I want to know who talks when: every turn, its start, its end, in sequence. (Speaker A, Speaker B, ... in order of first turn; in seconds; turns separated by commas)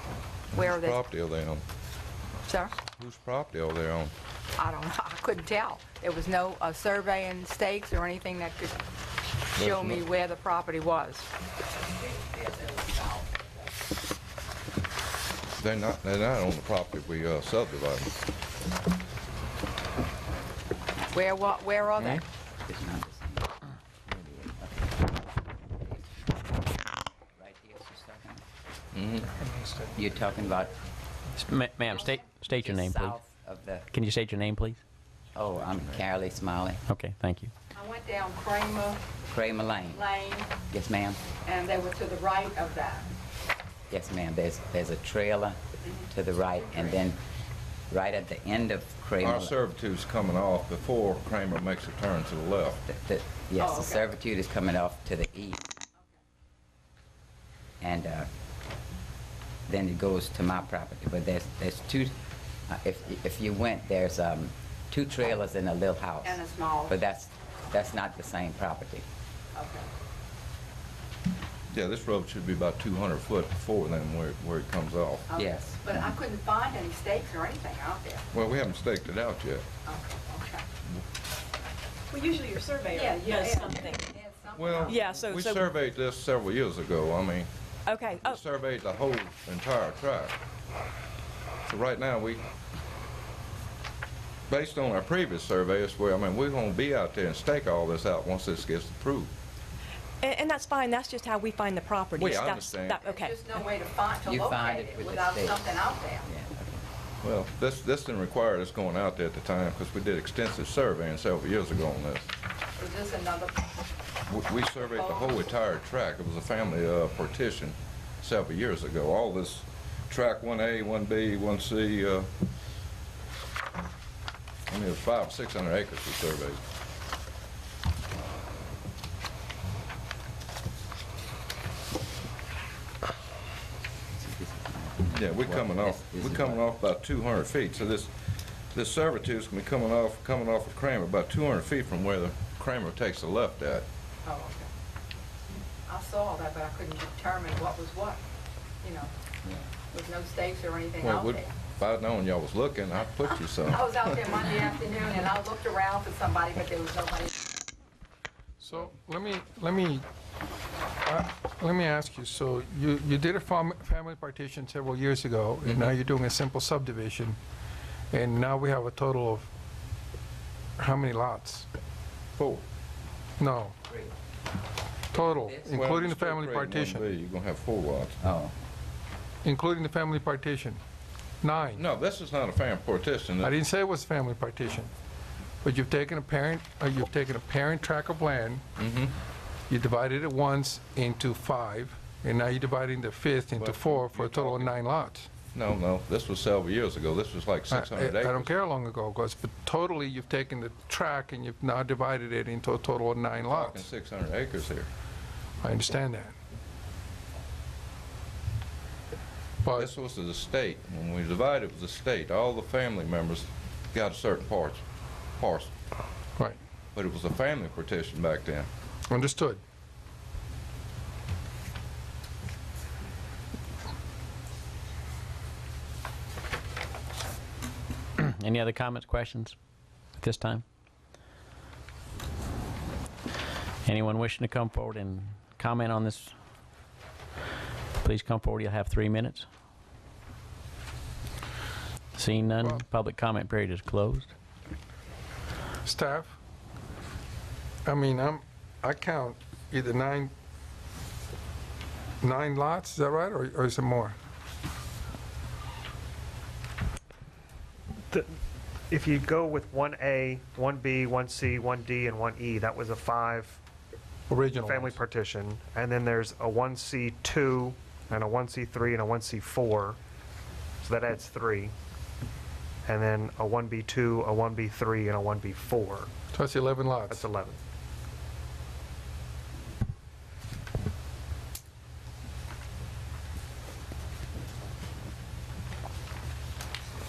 Speaker A: 0.5-1.0, Speaker B: 0.5-1.6, Speaker A: 2.5-2.8, Speaker B: 2.9-4.1, Speaker A: 4.6-8.8, Speaker A: 9.5-11.3, Speaker B: 9.6-10.0, Speaker C: 12.1-13.4, Speaker B: 15.6-18.2, Speaker A: 21.1-22.2, Speaker C: 22.6-23.5, Speaker C: 24.1-25.2, Speaker C: 25.7-26.1, Speaker C: 27.4-28.4, Speaker B: 28.9-29.3, Speaker D: 29.3-29.9, Speaker C: 29.9-30.8, Speaker E: 31.4-33.2, Speaker C: 31.9-33.9, Speaker E: 33.9-34.8, Speaker C: 35.4-36.8, Speaker B: 35.5-36.0, Speaker E: 36.9-37.5, Speaker A: 37.7-39.0, Speaker C: 39.3-40.0, Speaker A: 39.9-40.5, Speaker C: 40.7-41.2, Speaker A: 41.5-43.1, Speaker C: 43.9-45.6, Speaker A: 45.8-46.1, Speaker C: 46.1-47.2, Speaker C: 47.9-49.6, Speaker B: 49.2-52.8, Speaker C: 52.8-55.6, Speaker A: 53.6-54.1, Speaker C: 57.8-58.3, Speaker C: 59.7-62.1, Speaker C: 62.7-69.0, Speaker A: 66.2-67.0, Speaker A: 69.5-69.9, Speaker B: 71.7-75.3, Speaker A: 75.3-78.2, Speaker C: 75.4-76.0, Speaker B: 78.3-79.7, Speaker A: 79.8-80.7, Speaker F: 82.1-84.1, Speaker A: 82.9-85.2, Speaker B: 84.5-87.5, Speaker F: 84.8-85.7, Speaker F: 87.9-88.4, Speaker B: 88.1-90.4, Speaker B: 91.7-92.4, Speaker B: 94.5-99.3, Speaker F: 100.2-103.4, Speaker B: 102.2-103.0, Speaker A: 103.0-106.3, Speaker C: 104.2-106.8, Speaker B: 107.2-112.3, Speaker A: 112.8-113.7, Speaker B: 114.3-122.3, Speaker A: 114.9-115.5, Speaker B: 124.7-126.6, Speaker C: 134.2-136.6, Speaker B: 135.1-143.9, Speaker A: 144.2-144.7, Speaker A: 145.9-148.2, Speaker A: 148.8-149.1, Speaker A: 149.9-151.6, Speaker B: 151.0-154.2, Speaker A: 153.2-157.5, Speaker D: 158.6-160.1, Speaker D: 161.1-167.4, Speaker B: 165.7-165.9, Speaker D: 168.1-169.5, Speaker D: 170.8-171.7, Speaker B: 172.4-172.7, Speaker D: 173.4-173.8, Speaker D: 175.1-177.2, Speaker C: 175.4-175.7, Speaker B: 175.7-178.2, Speaker C: 178.2-178.5, Speaker D: 179.4-180.8, Speaker D: 181.4-181.8, Speaker B: 181.8-183.6, Speaker D: 183.4-184.9, Speaker D: 185.6-188.7, Speaker B: 188.8-189.2, Speaker D: 189.7-195.4, Speaker B: 193.6-194.8, Speaker B: 195.5-198.5, Speaker D: 197.7-203.9, Speaker B: 203.4-204.9, Speaker D: 205.6-206.4, Speaker D: 209.7-209.9, Speaker B: 209.8-214.8, Speaker B: 215.4-215.7, Speaker B: 216.9-218.7, Speaker D: 219.1-219.6, Speaker E: 228.2-229.6, Speaker E: 230.2-230.6, Speaker E: 233.8-236.3, Speaker E: 238.0-239.5, Speaker E: 242.1-244.3, Speaker D: 242.6-242.8, Speaker D: 245.8-246.4, Speaker D: 247.8-250.3, Speaker D: 252.2-254.2, Speaker G: 258.9-263.6, Speaker D: 264.3-265.0, Speaker G: 264.6-270.0, Speaker G: 270.8-271.7, Speaker G: 272.9-276.1, Speaker D: 276.3-277.3, Speaker G: 277.1-277.6